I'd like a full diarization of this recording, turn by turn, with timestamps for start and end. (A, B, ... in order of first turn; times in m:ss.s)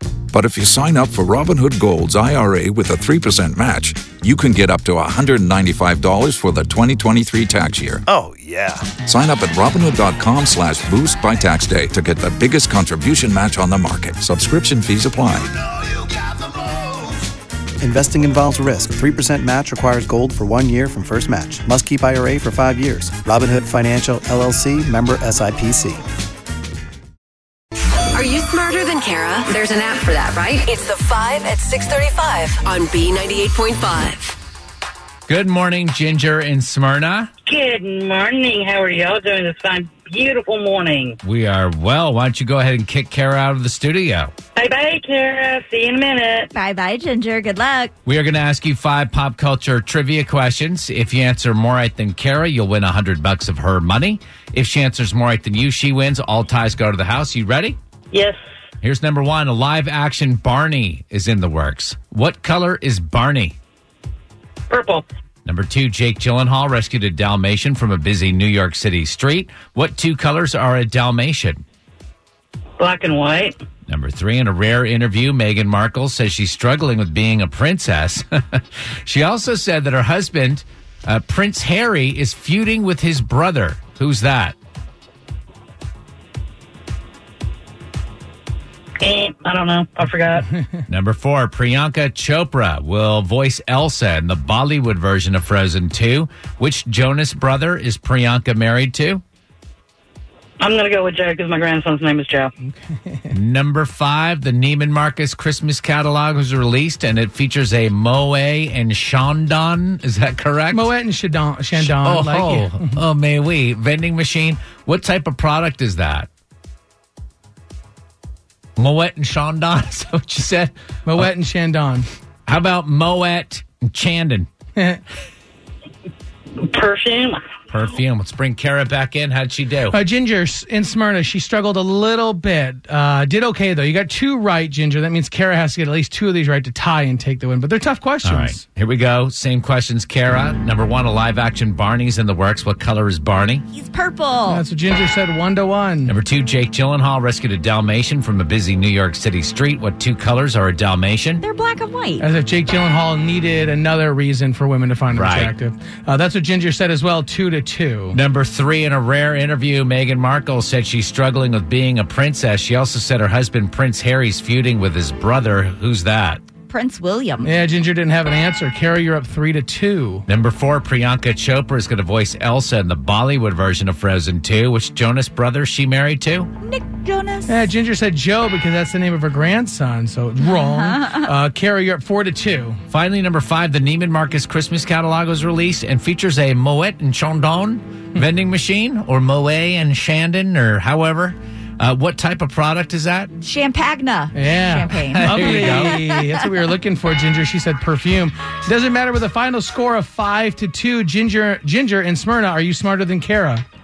0:00.3-0:08.0 A
0:08.1-0:08.9 B
0:08.9-0:15.5 A
0:17.8-0:26.0 B
0:28.1-0:34.3 C
0:35.3-0:37.3 D
0:37.4-0:41.2 E
0:41.2-0:44.3 D
0:44.6-0:46.5 E
0:46.5-0:47.9 F
0:48.0-0:57.8 D
0:58.1-0:58.4 E
0:58.8-1:03.6 D
1:04.7-1:05.0 E
1:05.4-1:11.6 D
1:12.8-1:13.5 E
1:13.9-1:24.5 D
1:29.0-1:30.5 E
1:30.9-1:39.2 D
1:40.6-1:42.5 E
1:42.6-1:43.3 G
1:43.3-1:50.9 D
1:50.7-1:53.0 G
1:51.8-1:56.3 D
1:58.8-2:01.3 D
2:01.0-2:02.0 G
2:02.5-2:04.5 D
2:04.8-2:05.0 G
2:06.6-2:07.4 E
2:07.7-2:10.0 D
2:09.9-2:18.6 G
2:18.2-2:23.6 D
2:23.7-2:24.6 F
2:24.5-2:26.1 G
2:26.1-2:31.4 D
2:31.4-2:32.2 F
2:32.2-2:38.2 G
2:35.1-2:35.5 D
2:38.1-2:46.4 D
2:46.7-2:47.5 F
2:47.4-2:50.2 G
2:50.3-2:56.5 D
2:56.6-2:57.6 F
2:57.5-3:02.8 G
3:00.4-3:01.1 F
3:02.9-3:13.3 D
3:13.4-3:16.4 F
3:14.3-3:23.6 G
3:15.1-3:16.0 D